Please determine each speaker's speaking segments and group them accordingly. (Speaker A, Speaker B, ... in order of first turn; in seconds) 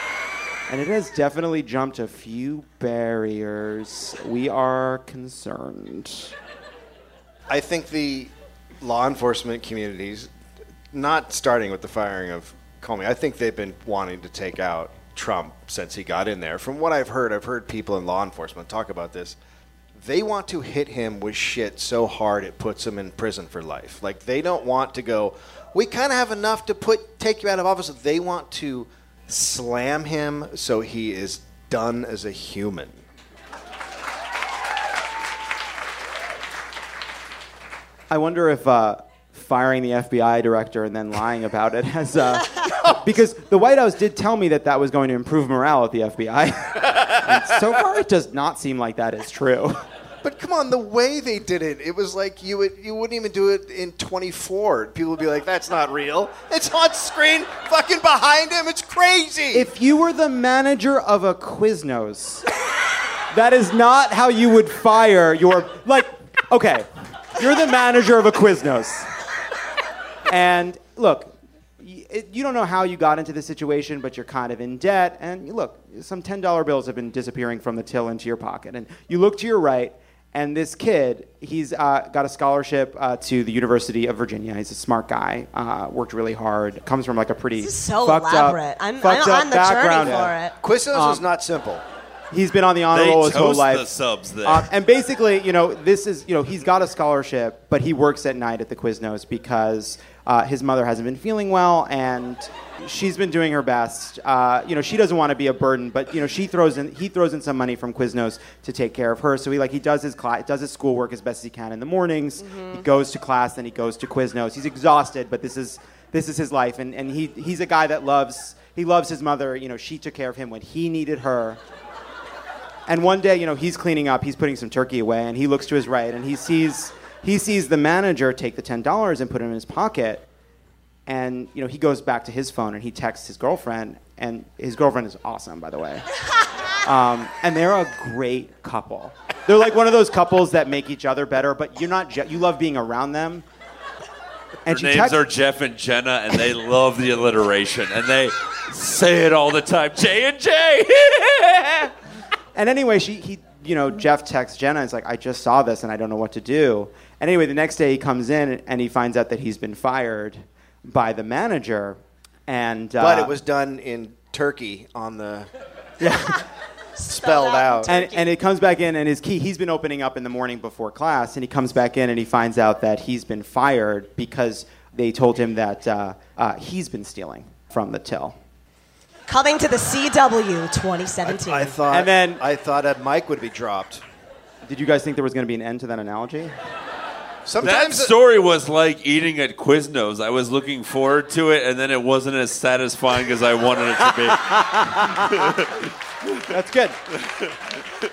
Speaker A: 0.7-6.3, 38.1-49.8, 59.5-62.4, 63.3-69.1, 70.3-90.3, 90.9-91.2, 92.3-93.9, 94.4-121.6, 122.9-130.2, 131.1-136.0, 136.8-143.4, 144.6-145.2, 152.5-163.3, 166.0-166.4, 167.8-178.3, 181.9-182.4, 184.6-186.5, 194.4-195.6, 196.4-197.0
Speaker B: 7.5-10.3, 10.9-19.4, 19.9-33.0, 50.2-59.7, 90.0-91.8, 163.0-165.5, 166.9-168.0, 181.2-184.0, 187.4-188.1
Speaker C: 87.6-90.5, 112.5-112.8, 167.1-168.2, 179.3-181.7
Speaker D: 92.9-94.7, 144.7-151.9, 187.6-195.7